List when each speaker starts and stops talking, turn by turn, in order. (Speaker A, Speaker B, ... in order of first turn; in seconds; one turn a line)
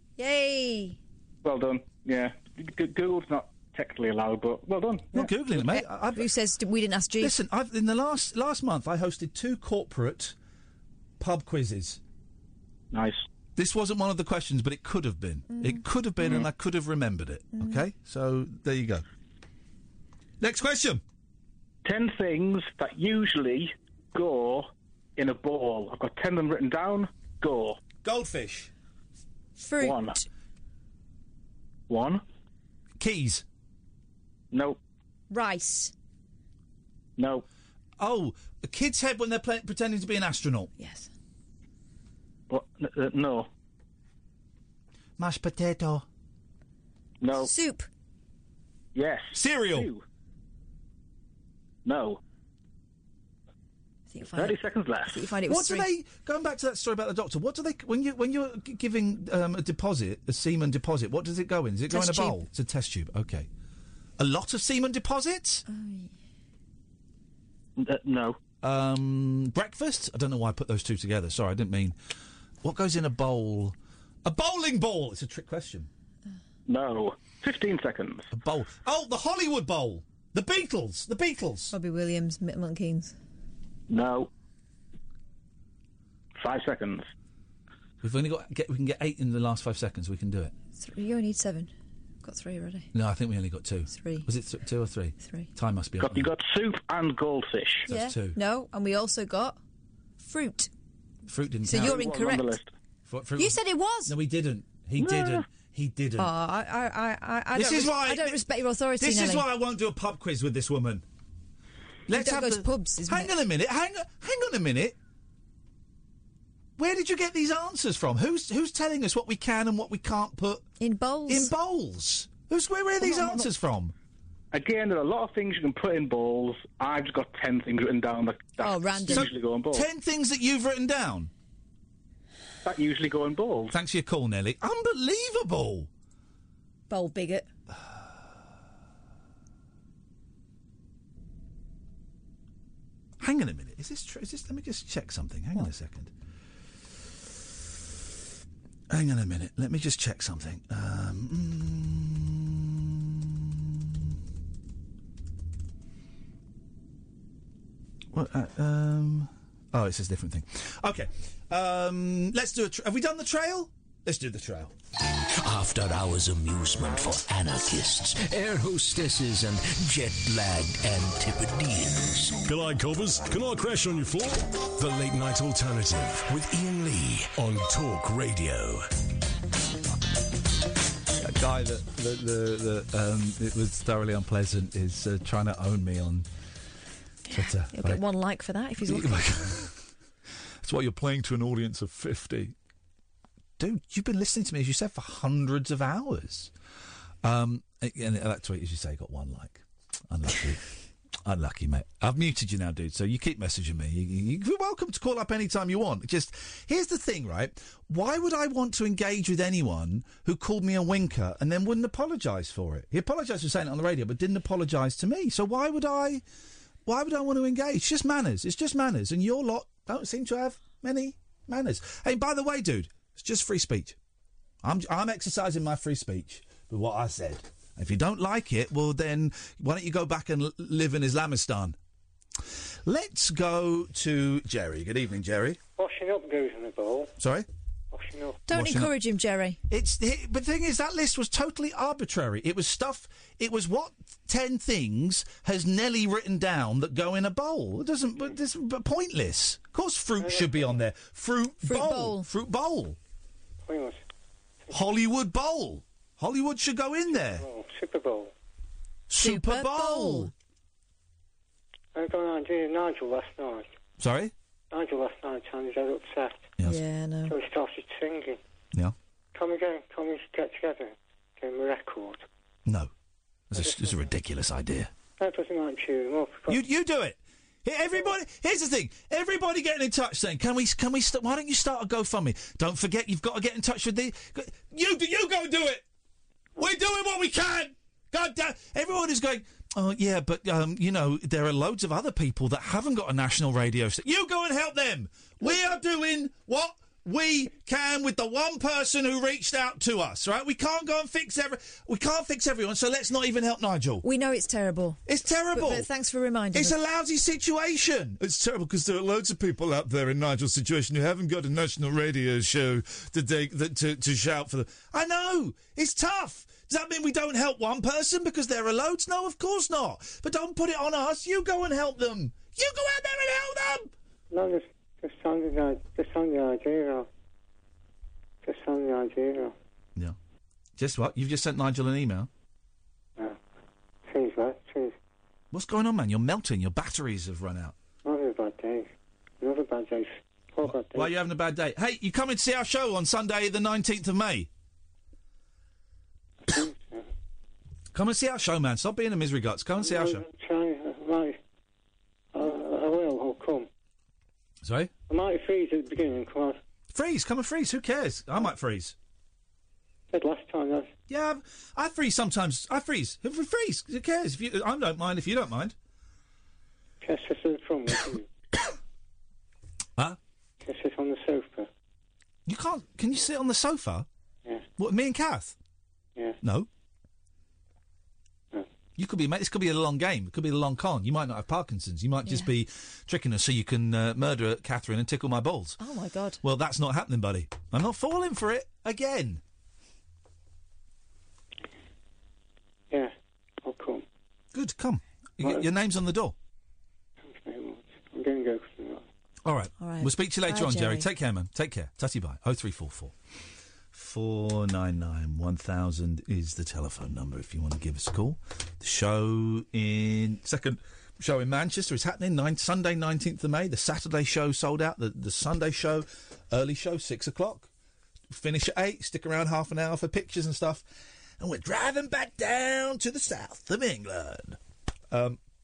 Speaker A: 0.2-1.0
Speaker B: 1.4-5.3
Speaker C: 5.1-6.3
Speaker A: 5.5-7.3
Speaker C: 7.2-10.4
Speaker C: 11.2-12.0
Speaker B: 12.9-13.2
Speaker C: 13.6-19.1
Speaker A: 15.5-15.8
Speaker A: 17.6-17.8
Speaker C: 20.4-21.0
Speaker B: 21.9-27.8
Speaker C: 28.0-28.7
Speaker A: 29.6-30.2
Speaker B: 29.8-30.1
Speaker B: 31.9-32.2
Speaker C: 33.0-33.5
Speaker B: 34.5-34.8
Speaker A: 35.3-35.9
Speaker B: 37.2-37.5
Speaker C: 38.0-40.7
Speaker A: 40.8-41.1
Speaker B: 42.5-43.5
Speaker C: 45.2-46.0
Speaker B: 47.2-47.5
Speaker A: 47.4-47.9
Speaker B: 49.0-50.0
Speaker C: 49.3-49.9
Speaker B: 51.9-52.2
Speaker A: 54.1-55.9
Speaker B: 54.4-55.2
Speaker C: 55.5-63.5
Speaker A: 61.9-62.4
Speaker C: 64.2-65.6
Speaker A: 65.7-66.1
Speaker B: 67.8-68.4
Speaker C: 68.6-72.0
Speaker C: 72.6-75.9
Speaker B: 76.7-78.3
Speaker C: 78.3-81.7
Speaker A: 81.7-83.2
Speaker B: 83.9-84.3
Speaker B: 86.4-87.1
Speaker C: 88.0-90.5
Speaker A: 90.8-91.7
Speaker A: 92.2-92.9
Speaker C: 92.9-96.3
Speaker A: 93.9-94.3
Speaker A: 95.2-95.5
Speaker B: 96.0-97.9
Speaker C: 97.9-98.4
Speaker A: 97.9-99.6
Speaker A: 100.2-100.7
Speaker C: 101.3-102.0
Speaker A: 101.7-102.6
Speaker B: 101.7-102.7
Speaker C: 103.1-106.3
Speaker A: 103.4-104.1
Speaker B: 105.0-105.4
Speaker A: 106.2-109.5
Speaker C: 107.5-108.4
Speaker C: 109.0-111.0
Speaker C: 112.1-115.0
Speaker A: 112.1-113.3
Speaker C: 116.8-120.7
Speaker A: 120.8-121.5
Speaker C: 121.3-123.9
Speaker A: 123.0-123.4
Speaker B: 124.5-129.9
Speaker A: 128.6-129.3
Speaker C: 129.1-131.3
Speaker B: 132.6-133.8
Speaker C: 133.7-135.9
Speaker A: 136.9-137.5
Speaker C: 143.2-146.1
Speaker C: 148.9-154.2
Speaker C: 158.1-164.7
Speaker D: 165.4-172.4
Speaker E: 172.5-178.8
Speaker C: 181.2-186.3
Speaker C: 187.3-188.0
Speaker A: 187.3-189.4
Speaker C: 188.8-189.8
Speaker C: 190.6-192.6
Speaker C: 193.6-196.5
Speaker C: 197.2-200.6
Speaker C: 201.2-216.2
Speaker C: 216.9-224.0
Speaker C: 224.6-231.8
Speaker C: 232.8-235.6
Speaker F: 235.8-237.1
Speaker C: 237.2-237.5
Speaker F: 237.9-238.4
Speaker A: 238.5-239.6
Speaker C: 238.5-238.9
Speaker C: 239.7-253.0
Speaker F: 250.2-250.8
Speaker A: 251.6-252.3
Speaker F: 253.6-254.0
Speaker C: 254.7-257.4
Speaker F: 257.1-258.3
Speaker C: 259.1-260.3
Speaker A: 259.2-260.3
Speaker F: 261.9-263.7
Speaker C: 264.0-264.3
Speaker F: 264.7-266.5
Speaker A: 266.6-267.4
Speaker F: 267.3-268.4
Speaker F: 269.4-272.2
Speaker C: 272.7-272.9
Speaker C: 273.5-274.9
Speaker F: 273.5-274.1
Speaker F: 275.2-276.6
Speaker C: 276.5-285.9
Speaker C: 286.6-304.1
Speaker A: 304.0-306.8
Speaker C: 305.1-305.9
Speaker C: 306.5-323.9
Speaker F: 324.3-327.1
Speaker F: 328.4-329.5
Speaker C: 330.8-332.3
Speaker F: 334.1-334.9
Speaker C: 335.5-337.8
Speaker F: 338.1-338.9
Speaker F: 339.4-341.1
Speaker C: 340.6-344.5
Speaker F: 346.5-347.0
Speaker C: 347.9-350.2
Speaker F: 349.8-351.4
Speaker F: 352.3-353.7
Speaker C: 354.6-354.9
Speaker F: 355.1-356.6
Speaker C: 356.9-358.9
Speaker F: 360.1-360.9
Speaker C: 361.1-365.8
Speaker F: 367.0-368.2
Speaker F: 370.6-371.7
Speaker C: 372.5-374.1
Speaker C: 374.8-375.6
Speaker C: 376.4-376.7
Speaker C: 379.0-385.8
Speaker A: 385.8-386.4
Speaker C: 386.4-389.4
Speaker F: 392.9-394.1
Speaker C: 394.5-396.4
Speaker F: 397.2-399.0
Speaker C: 399.4-403.1
Speaker A: 399.8-401.1
Speaker C: 403.9-417.7
Speaker C: 418.3-420.9
Speaker C: 421.4-424.6
Speaker C: 425.1-425.4